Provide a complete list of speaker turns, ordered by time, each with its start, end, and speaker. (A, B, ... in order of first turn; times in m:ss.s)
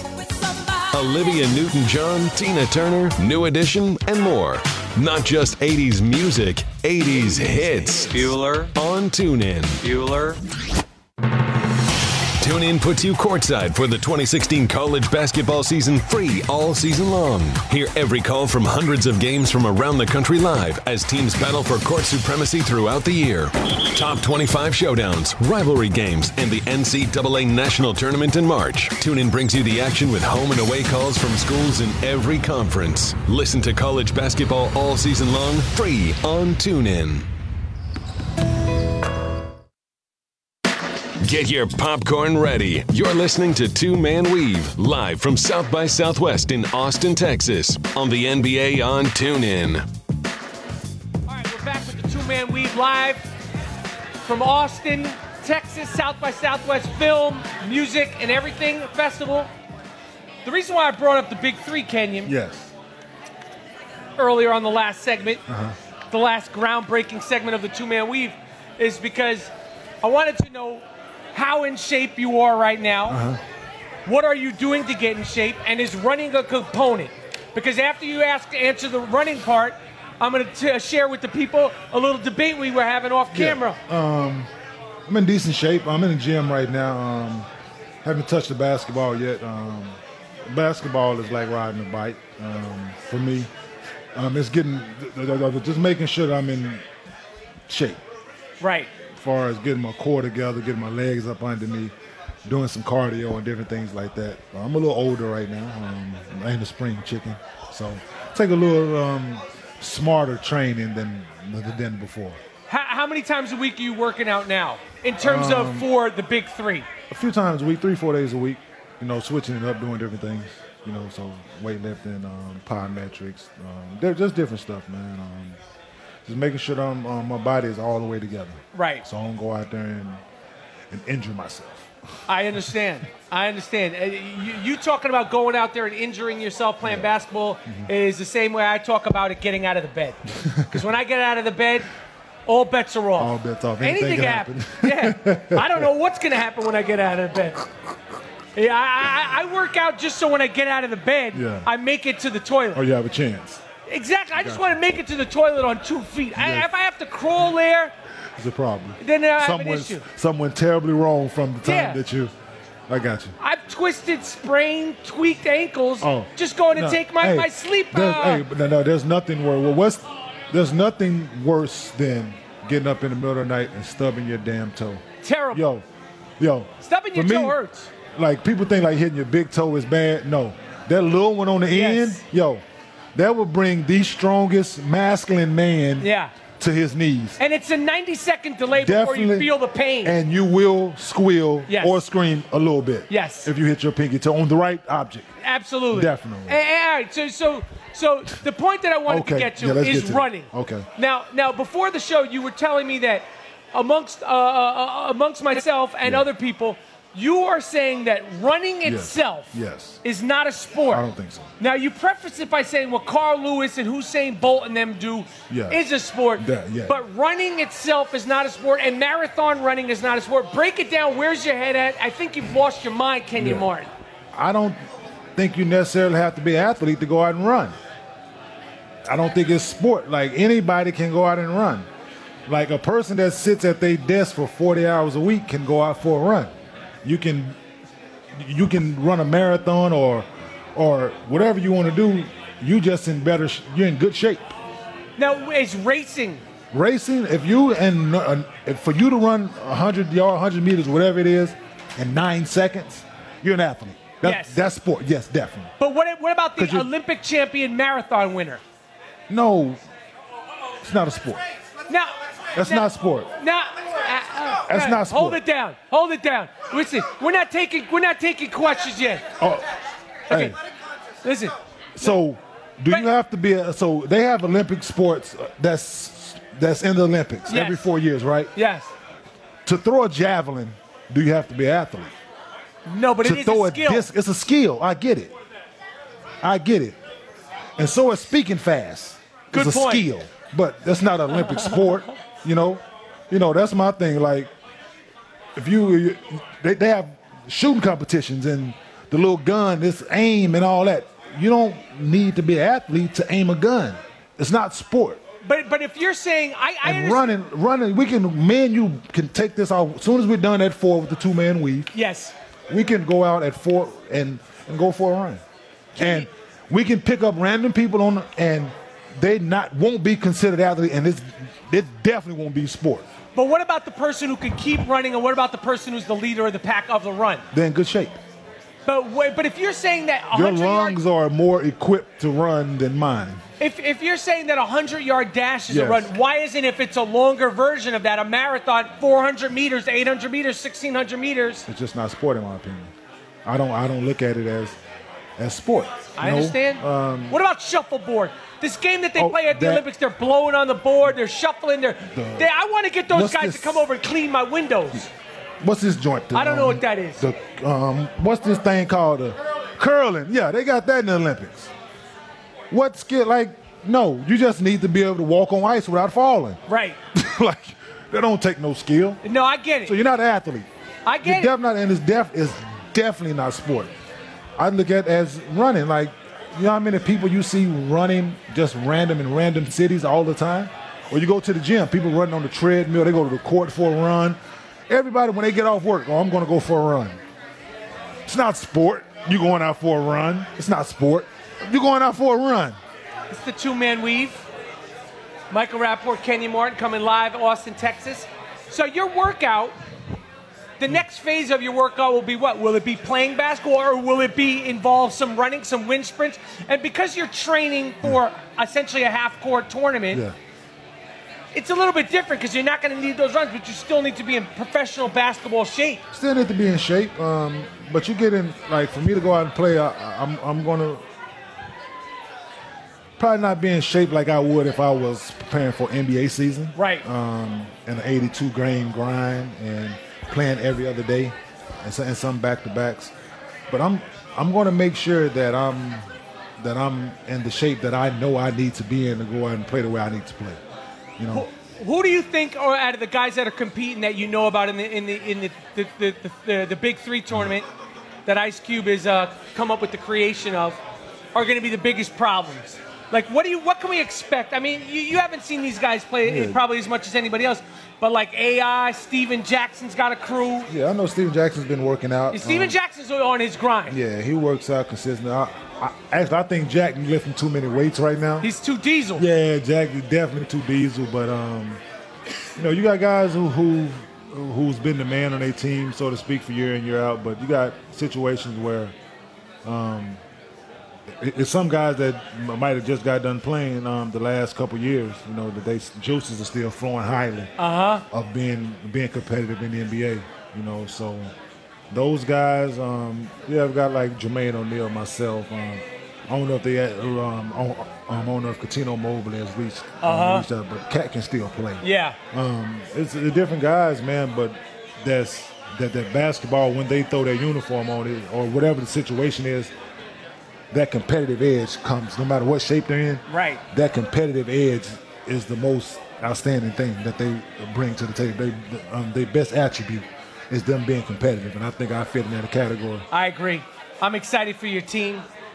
0:00.9-0:09.9 A
0:12.4-0:37.3 A
0:41.2-0:49.8 A
0:51.3-0:53.3 B
0:54.2-0:59.5 B
1:00.4-1:02.3 B
1:02.2-1:02.7 C
1:04.2-1:05.4 B
1:05.5-1:05.8 C
1:06.1-1:09.5 B
1:10.0-1:13.2 B
1:13.1-1:13.4 C
1:14.1-1:23.8 B
1:23.3-1:24.5 C
1:25.1-1:27.5 C
1:28.0-1:33.5 C
1:34.2-1:36.8 C
1:37.7-1:38.0 C
1:38.6-1:38.9 B
1:39.1-1:41.9 C
1:42.4-1:52.4 C
1:52.7-1:56.9 B
1:55.2-1:55.9 C
1:57.1-2:05.6 C
2:06.2-2:10.2 C
2:08.7-2:09.1 B
2:10.9-2:11.9 C
2:12.3-2:21.9 B
2:16.8-2:17.1 C
2:20.4-2:20.8 C
2:22.5-2:27.6 B
2:23.2-2:25.9 C
2:28.6-2:32.8 B
2:31.3-2:31.7 C
2:32.7-2:33.6 C
2:33.9-2:37.9 B
2:34.4-2:34.7 C
2:36.4-2:36.7 C
2:38.4-2:42.3 C
2:39.0-2:40.0 B
2:41.6-2:42.0 B
2:42.9-2:43.4 C
2:43.4-2:48.4 B
2:46.0-2:55.8 C
2:55.2-2:55.6 B
2:56.4-2:57.6 C
2:56.8-2:57.9 B
2:58.1-3:02.6 C
3:01.7-3:02.2 B
3:03.2-3:07.4 C
3:06.0-3:06.3 B
3:07.4-3:10.2 B
3:08.7-3:09.5 C
3:10.0-3:15.3 C
3:11.7-3:12.0 B
3:13.1-3:13.5 B
3:15.4-3:31.1 B
3:15.9-3:16.6 C
3:19.1-3:20.9 C
3:28.8-3:30.0 C
3:30.9-3:31.5 C
3:31.6-3:43.9 B
3:35.5-3:35.8 C
3:36.4-3:37.0 C
3:43.4-3:43.7 C
3:44.3-3:44.8 C
3:45.4-3:47.8 C
3:49.1-3:51.9 C
3:52.5-3:56.5 C
3:57.0-3:57.6 C
3:58.4-4:04.5 C
4:05.2-4:06.4 B
4:06.7-4:15.7 C
4:14.2-4:14.6 B
4:15.8-4:18.6 B
4:16.6-4:16.9 C
4:19.3-4:19.8 C
4:20.8-4:21.4 C
4:21.9-4:29.3 B
4:22.6-4:23.3 C
4:24.7-4:25.4 C
4:29.4-4:29.7 C
4:30.3-4:30.6 C
4:30.3-4:30.6 B
4:31.2-4:32.2 B
4:32.0-4:38.5 C
4:37.5-4:37.9 B
4:38.6-4:38.9 B
4:39.6-4:42.1 C
4:42.9-4:44.1 B
4:43.2-4:45.3 C
4:46.4-4:47.0 C
4:47.8-4:54.5 C
4:49.5-4:50.1 B
4:55.6-5:05.2 C
5:05.4-5:07.3 B
5:06.8-5:11.9 C
5:11.9-5:12.3 B
5:12.7-5:15.4 C
5:16.0-5:16.3 B
5:16.0-5:23.1 C
5:23.4-5:27.4 B
5:27.5-5:28.2 C
5:28.9-5:31.0 B
5:30.3-5:33.4 C
5:33.6-5:41.7 B
5:35.7-5:36.1 C
5:41.7-5:42.9 C
5:43.4-5:44.8 C
5:45.4-5:47.4 C
5:46.2-5:55.1 B
5:49.2-5:49.9 C
5:52.1-5:52.5 C
5:53.1-5:53.9 C
5:55.6-6:01.7 C
5:56.3-5:57.2 B
6:02.7-6:06.6 C
6:06.7-6:07.0 B
6:07.1-6:09.2 C
6:09.2-6:10.0 B
6:09.8-6:10.7 C
6:11.1-6:11.5 B
6:11.2-6:13.9 C
6:14.6-6:24.4 C
6:24.9-6:27.2 C
6:28.3-6:32.8 C
6:33.3-6:34.4 B
6:35.5-6:39.8 B
6:40.8-6:50.2 B
6:50.1-6:50.4 C
6:51.5-6:56.0 B
6:56.1-7:01.0 C
7:03.2-7:13.1 C
7:06.8-7:07.0 B
7:13.7-7:16.1 C
7:16.6-7:20.6 C
7:21.2-7:21.5 C
7:21.3-7:27.7 B
7:28.3-7:30.8 B
7:31.3-7:40.7 B
7:36.2-7:36.6 C
7:40.7-7:42.8 C
7:42.3-7:44.0 B
7:43.9-7:48.5 C
7:48.4-7:49.2 B
7:49.2-7:51.8 C
7:52.6-7:59.0 C
7:59.6-8:00.2 C
8:01.1-8:07.5 C
8:07.6-8:08.0 B
8:08.1-8:11.3 C
8:11.9-8:29.7 C
8:20.0-8:20.5 B
8:21.8-8:22.2 B
8:30.7-8:43.1 C
8:33.3-8:33.6 B
8:43.1-8:45.3 B